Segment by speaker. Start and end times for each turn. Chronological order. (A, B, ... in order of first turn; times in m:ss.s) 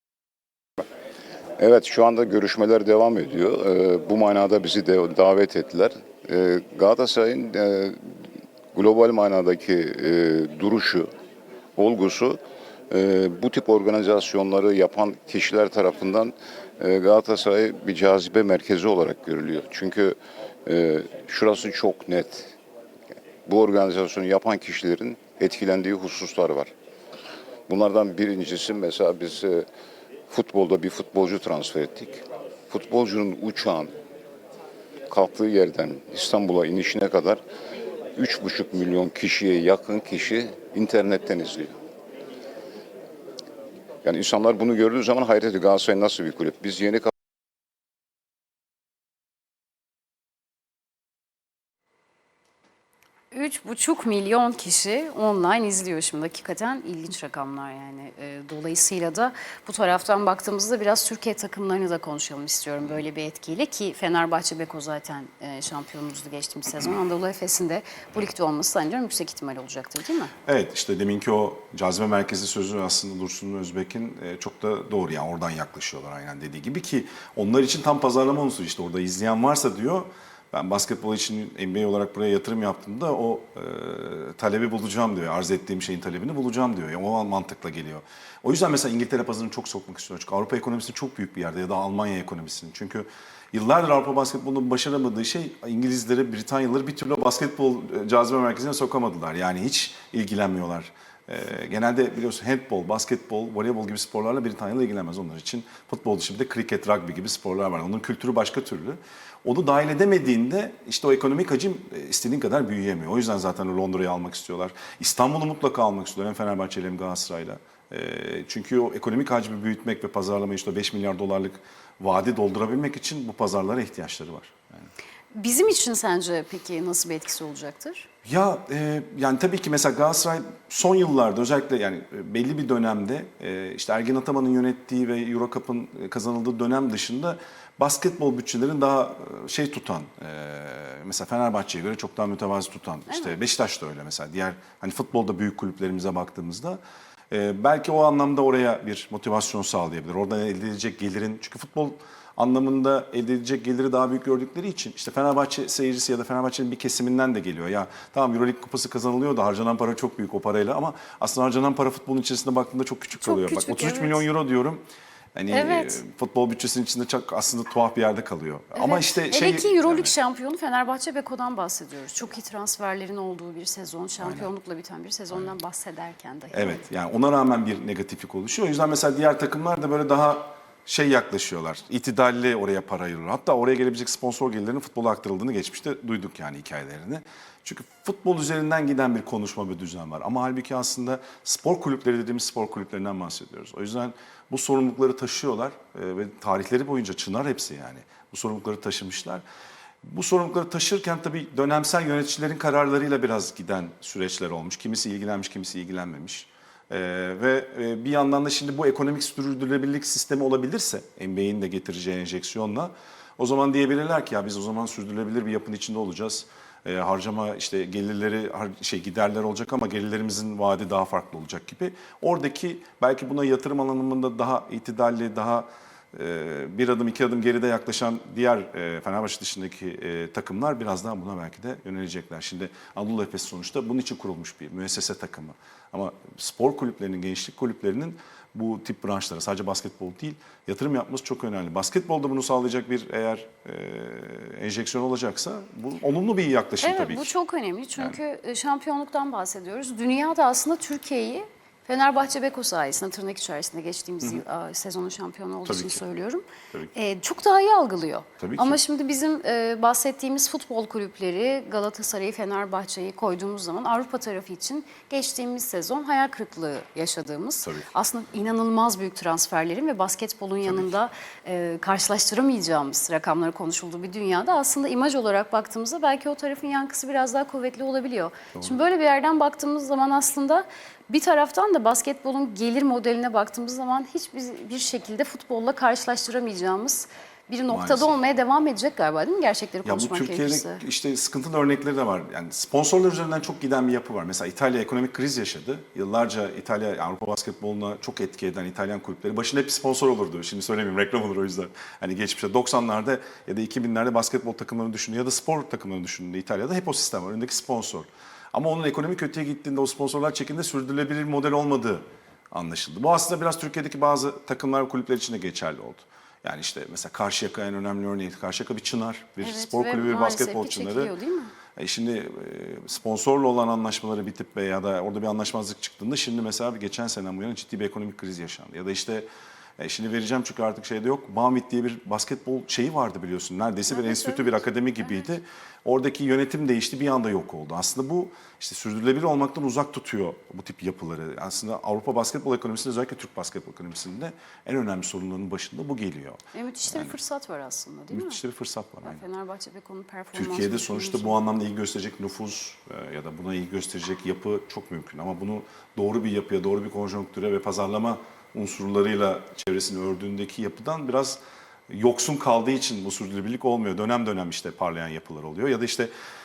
0:01.6-0:08.0 A
0:08.7-0:11.1 A
0:11.8-0:12.4 A
0:12.9-0:22.5 A
0:23.5-0:26.7 A
0:27.7-0:29.6 A
0:30.3-0:33.9 A
0:35.1-0:37.4 A
0:38.1-0:41.7 A
0:44.0-0:47.1 A
0:53.3-1:10.3 B
1:10.4-2:04.9 C
2:05.3-2:08.1 B
2:08.2-2:26.8 C
2:23.1-2:23.4 B
2:27.3-2:44.8 C
2:43.2-2:44.2 B
2:45.3-2:50.1 C
2:45.5-2:46.0 B
2:48.8-2:56.8 B
2:54.2-2:54.5 C
2:56.5-3:19.4 C
3:20.0-4:07.3 C
4:06.8-4:16.4 B
4:15.6-4:16.0 C
4:16.9-4:50.8 B
4:18.4-4:18.8 C
4:27.6-4:27.9 C
4:30.6-4:30.9 C
4:38.5-4:38.8 C
4:47.7-4:48.1 C
4:49.8-5:21.1 C
5:19.4-5:21.5 B
5:21.8-5:29.3 C
5:29.8-5:47.2 C
5:33.9-5:34.6 B
5:46.5-5:48.4 B
5:48.1-5:49.2 C
5:49.0-5:51.4 B
5:50.3-6:06.1 C